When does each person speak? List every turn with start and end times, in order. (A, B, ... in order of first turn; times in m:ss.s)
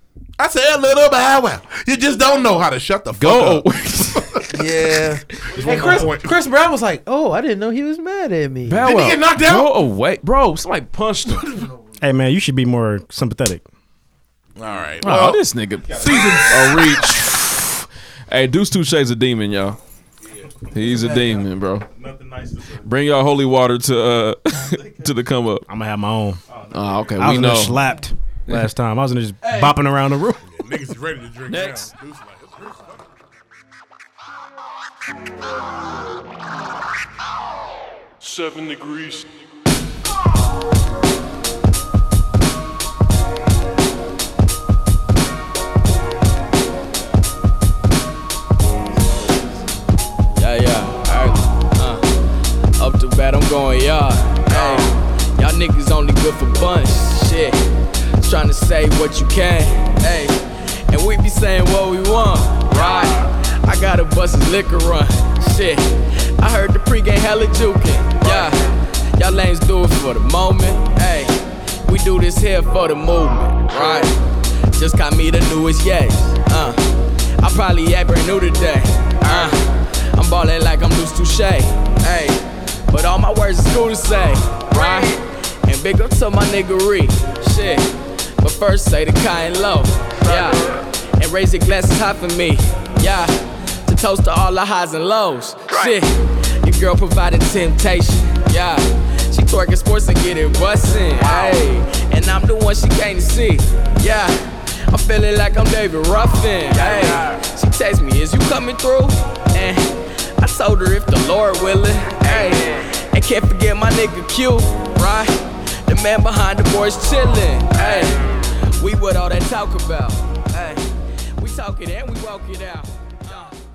0:00.4-0:04.5 A
0:02.1-0:02.6 B
0:03.2-0:04.6 C
0:04.5-0:08.9 D
0:05.5-0:06.3 A
0:05.5-0:06.2 B
0:08.7-0:11.6 C
0:08.8-0:09.7 A
0:12.0-0:13.6 E
0:14.6-0:15.4 A
0:15.0-0:19.8 C
0:15.8-0:17.4 B
0:16.0-0:17.0 A
0:20.6-0:22.9 B
0:20.7-0:21.9 C
0:22.8-0:25.6 C
0:24.5-0:25.1 B
0:25.7-0:26.4 E
0:26.5-0:27.5 B
0:26.7-0:27.8 C
0:27.2-0:30.5 E
0:30.5-0:32.9 A
0:31.5-0:31.9 C
0:38.2-0:39.2 A
0:49.0-0:49.7 B
0:50.4-0:52.2 F
0:52.8-0:57.6 F
0:58.2-1:14.2 F
1:14.7-1:16.9 F
1:17.4-1:33.3 F
1:33.8-2:03.6 F